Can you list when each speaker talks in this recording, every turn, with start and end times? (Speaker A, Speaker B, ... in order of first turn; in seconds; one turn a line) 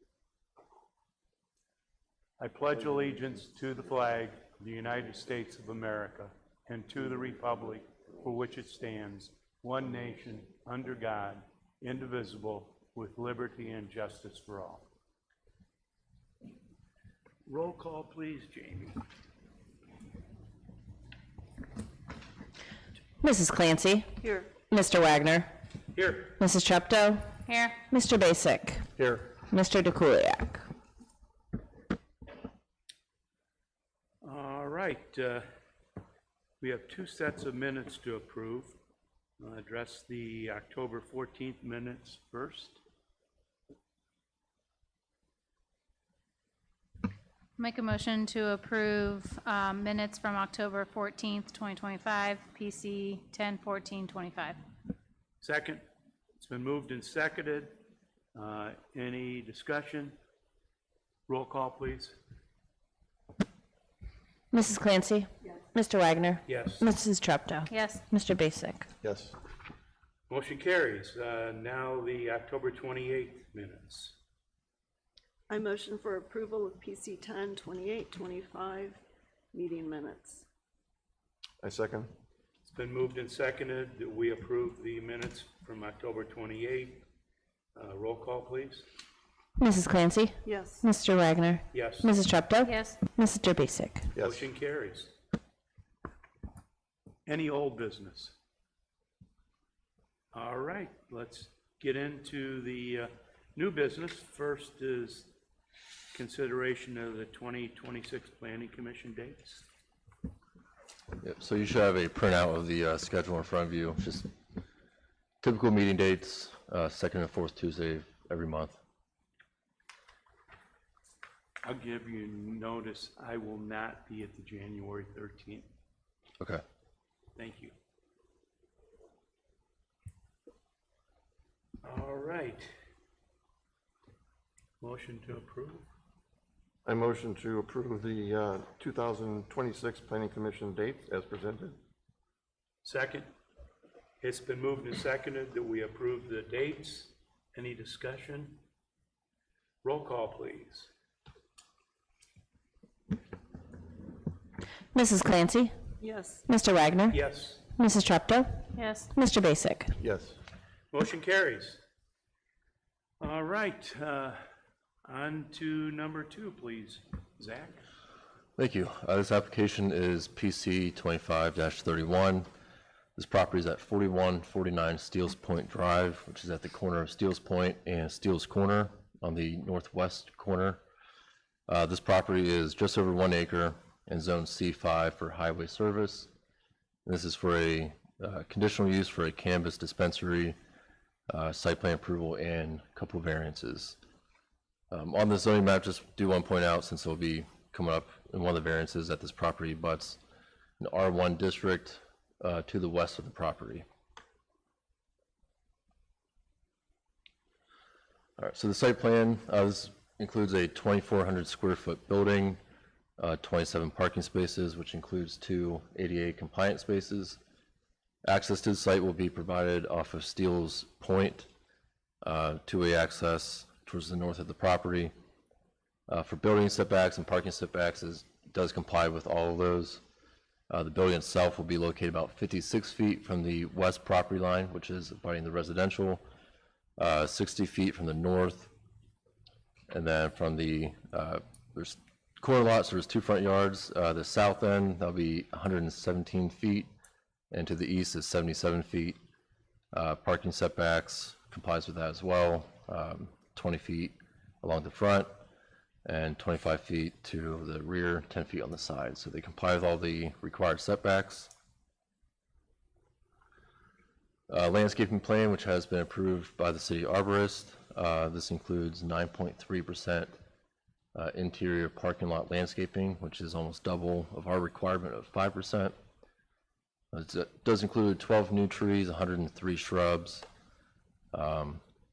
Speaker A: 2.4-14.9
Speaker A: 17.5-19.0
Speaker B: 23.2-24.1
Speaker C: 24.2-24.5
Speaker B: 24.7-25.5
Speaker A: 25.9-26.4
Speaker B: 26.4-27.2
Speaker D: 27.5-27.8
Speaker B: 27.9-28.8
Speaker E: 29.0-29.3
Speaker B: 29.5-30.6
Speaker A: 34.2-35.5
Speaker A: 36.6-38.8
Speaker A: 39.4-42.8
Speaker D: 47.6-54.6
Speaker A: 55.4-55.8
Speaker A: 56.4-57.8
Speaker A: 58.3-60.2
Speaker A: 61.3-62.2
Speaker B: 64.5-68.8
Speaker A: 66.5-66.9
Speaker D: 67.7-68.0
Speaker E: 69.0-69.3
Speaker A: 70.3-74.2
Speaker C: 75.5-79.0
Speaker C: 79.5-80.4
Speaker E: 81.6-82.1
Speaker A: 82.6-87.0
Speaker A: 87.8-88.9
Speaker B: 89.6-90.3
Speaker C: 90.5-90.8
Speaker B: 90.9-94.0
Speaker A: 91.7-92.1
Speaker D: 92.6-93.0
Speaker E: 94.2-94.4
Speaker A: 94.2-95.1
Speaker A: 97.3-98.3
Speaker A: 100.3-105.3
Speaker A: 106.1-109.7
Speaker F: 111.2-114.3
Speaker F: 115.4-118.8
Speaker A: 121.6-125.7
Speaker A: 127.4-127.7
Speaker A: 131.8-132.7
Speaker A: 134.8-135.8
Speaker E: 136.8-141.8
Speaker A: 142.8-143.3
Speaker A: 144.2-148.6
Speaker A: 149.8-150.9
Speaker B: 154.9-155.7
Speaker C: 156.0-156.4
Speaker B: 156.5-157.1
Speaker A: 157.1-157.6
Speaker B: 157.8-158.5
Speaker D: 158.8-159.1
Speaker B: 159.2-159.9
Speaker E: 160.0-160.4
Speaker A: 160.9-161.8
Speaker A: 163.2-164.4
Speaker A: 165.1-167.8
Speaker F: 168.6-172.5
Speaker F: 173.2-180.8
Speaker F: 181.7-186.3
Speaker F: 187.1-190.6
Speaker F: 191.3-194.0
Speaker F: 194.9-200.2
Speaker F: 200.8-203.8
Speaker F: 208.4-212.6
Speaker F: 213.2-217.4
Speaker F: 218.2-221.5
Speaker F: 222.2-225.1
Speaker F: 226.1-230.0
Speaker F: 230.7-236.2
Speaker F: 237.0-238.7
Speaker F: 239.9-246.9
Speaker F: 247.5-249.2
Speaker F: 249.9-255.3
Speaker F: 256.1-261.5
Speaker F: 264.5-270.3
Speaker F: 271.1-275.9
Speaker F: 277.1-280.4
Speaker F: 281.3-281.8